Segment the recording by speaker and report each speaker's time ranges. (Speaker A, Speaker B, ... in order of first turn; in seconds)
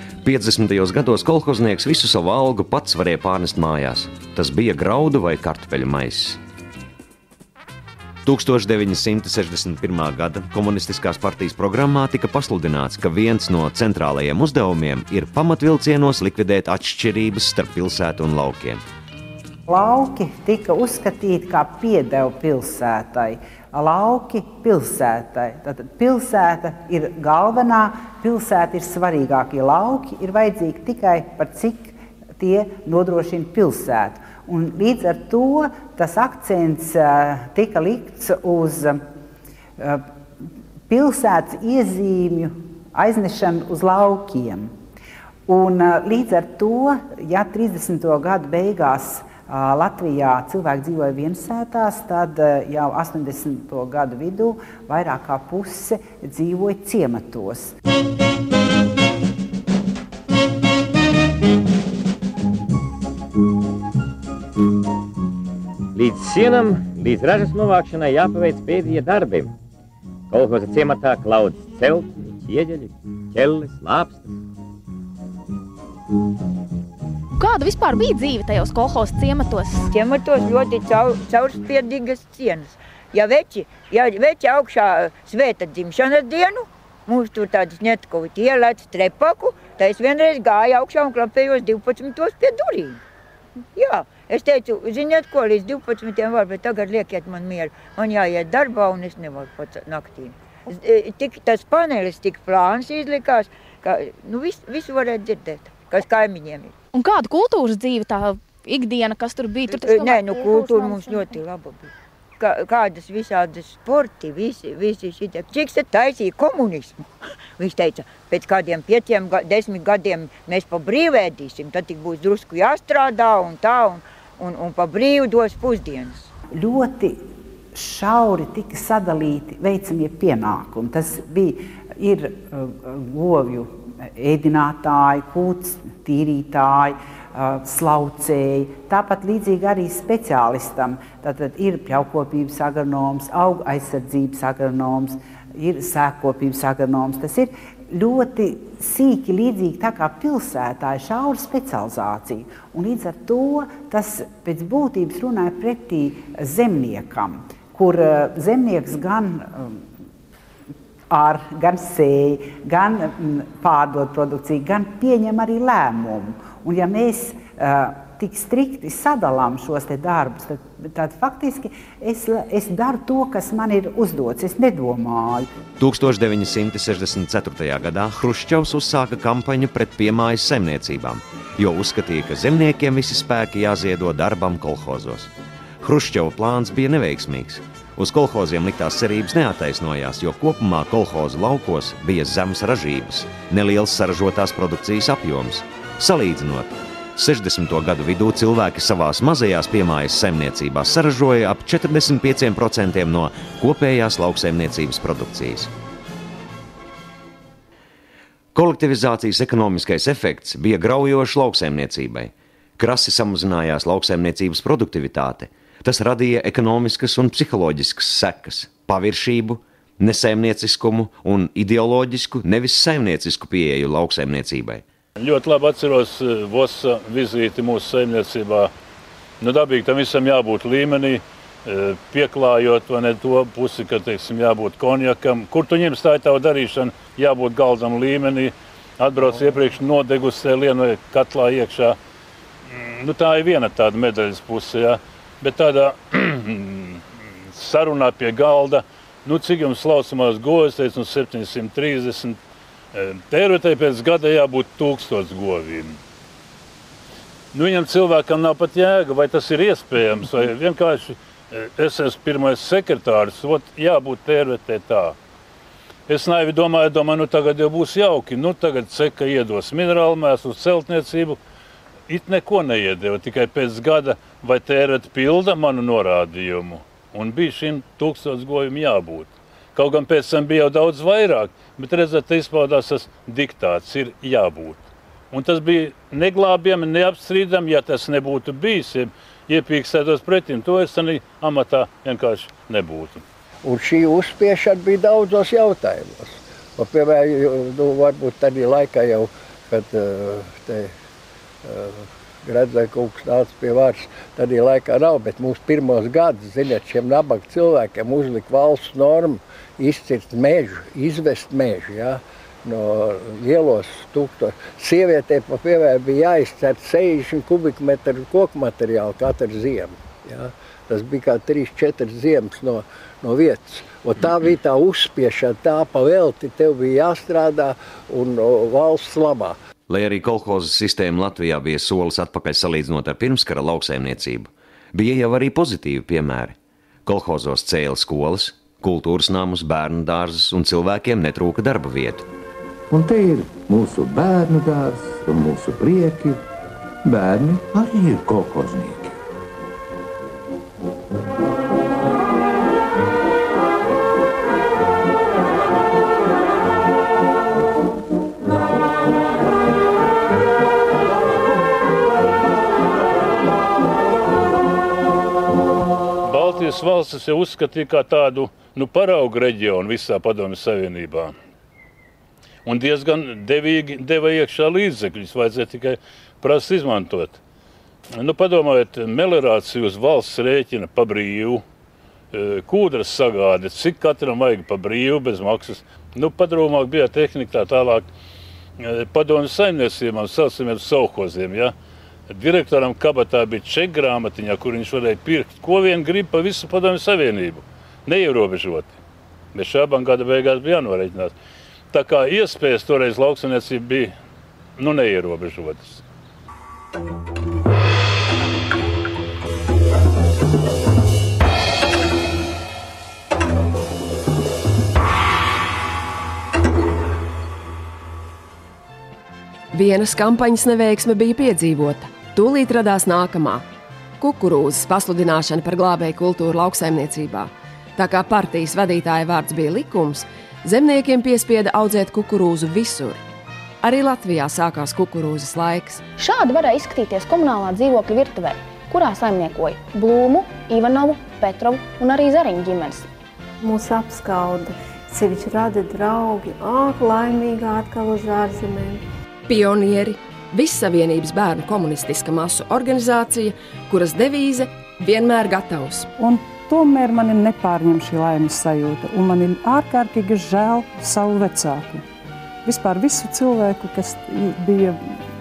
Speaker A: 0.2-6.4, 8.2-18.8, 175.8-205.7, 208.5-224.8, 329.9-336.6, 337.1-342.2
Speaker B: 19.7-39.0, 39.8-44.7, 45.5-57.7, 126.5-159.9, 161.1-175.5
Speaker C: 66.0-69.5, 70.3-74.3
Speaker D: 77.4-79.9, 106.9-111.4, 436.2-443.1
Speaker E: 79.9-93.0, 93.8-106.7, 109.7-117.1, 117.6-126.3
Speaker F: 225.2-228.7, 229.4-242.0, 242.7-252.4, 252.9-256.0, 257.5-265.2, 266.1-271.4, 272.1-293.2, 366.2-371.4, 372.6-377.4, 378.1-381.6, 382.3-388.1, 388.8-391.7, 392.3-399.0, 399.5-401.4, 401.9-404.1, 404.8-406.0
Speaker G: 293.6-300.9, 301.6-329.6
Speaker H: 342.9-346.4, 347.0-349.2
Speaker I: 419.7-423.7, 424.2-433.2, 433.8-436.0, 449.5-456.1
Speaker J: 443.6-449.0
Speaker K: 456.2-462.1, 462.6-465.1